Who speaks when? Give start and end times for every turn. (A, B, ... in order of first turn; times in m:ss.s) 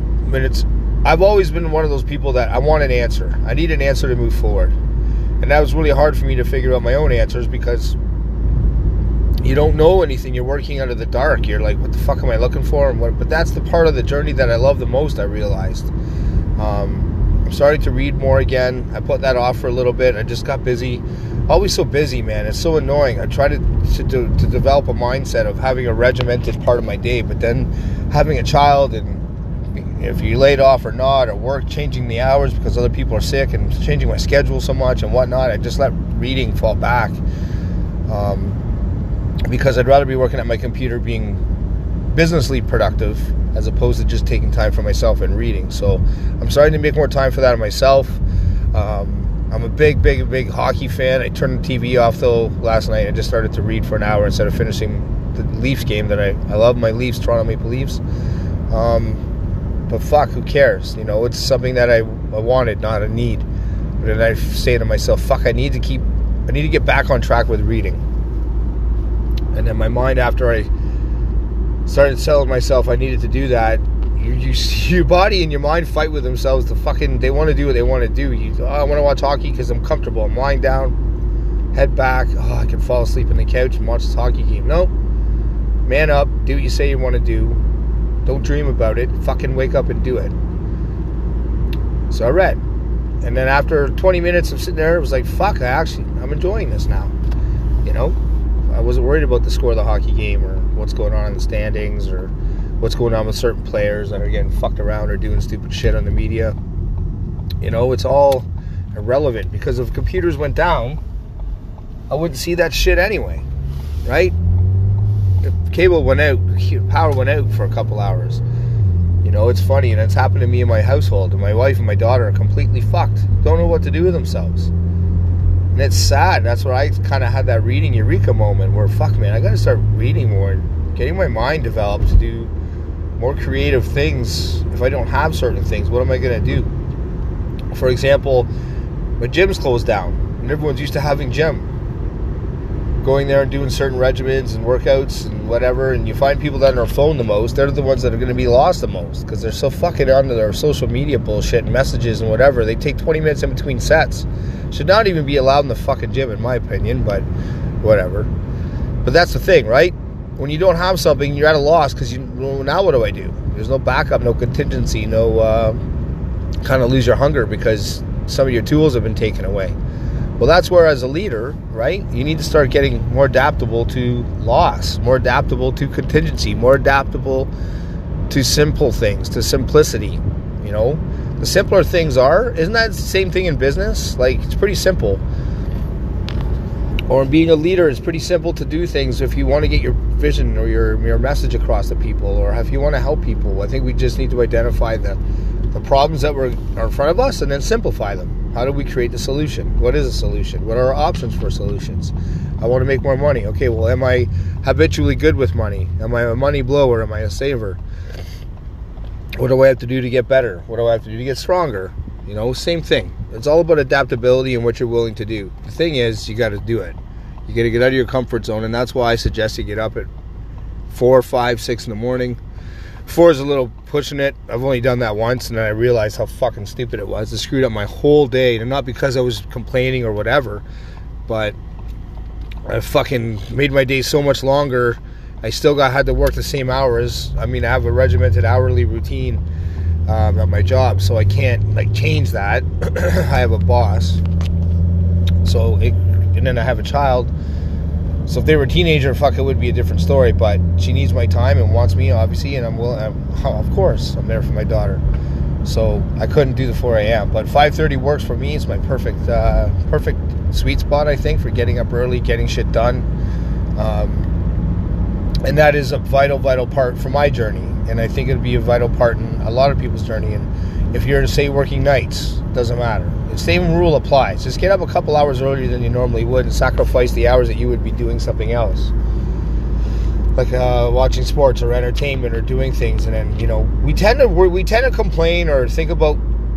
0:00.2-0:04.8 A
0:05.4-0:08.0 A
0:09.4-0:15.9 A
0:16.6-0:29.2 A
0:29.7-0:37.2 A
0:38.1-0:38.6 A
0:39.4-0:41.4 A
0:42.1-0:48.2 A
0:48.7-0:58.0 A
0:58.7-0:59.2 A
0:59.9-1:03.4 A
1:04.0-1:08.0 A
1:09.5-1:10.7 A
1:11.9-1:21.0 A
1:21.7-1:24.9 A
1:25.8-1:27.6 A
1:28.3-1:30.3 A
1:32.1-1:32.6 A
1:33.2-1:37.1 A
1:37.8-1:38.2 A
1:38.7-1:46.6 A
1:47.6-1:51.0 A
1:52.1-1:53.4 A
1:54.0-1:54.3 A
1:55.4-1:58.4 A
1:59.2-2:04.7 A
2:05.7-2:12.5 A
2:13.2-2:16.7 A
2:17.7-2:18.5 A
2:19.2-2:21.7 A
2:23.0-2:37.3 A
2:37.8-2:38.3 A
2:39.0-2:45.8 A
2:46.6-2:49.8 A
2:50.4-2:57.5 A
2:58.3-3:05.2 A
3:07.1-3:15.2 A
3:15.7-3:27.8 A
3:29.4-3:40.1 A
3:40.9-3:42.4 A
3:43.1-3:50.6 A
3:51.3-3:51.6 A
3:52.7-3:59.4 A
4:00.1-4:04.2 A
4:05.4-4:07.3 A
4:08.3-4:15.0 A
4:15.6-4:23.1 A
4:23.8-4:24.3 A
4:25.4-4:38.9 A
4:40.4-4:46.2 A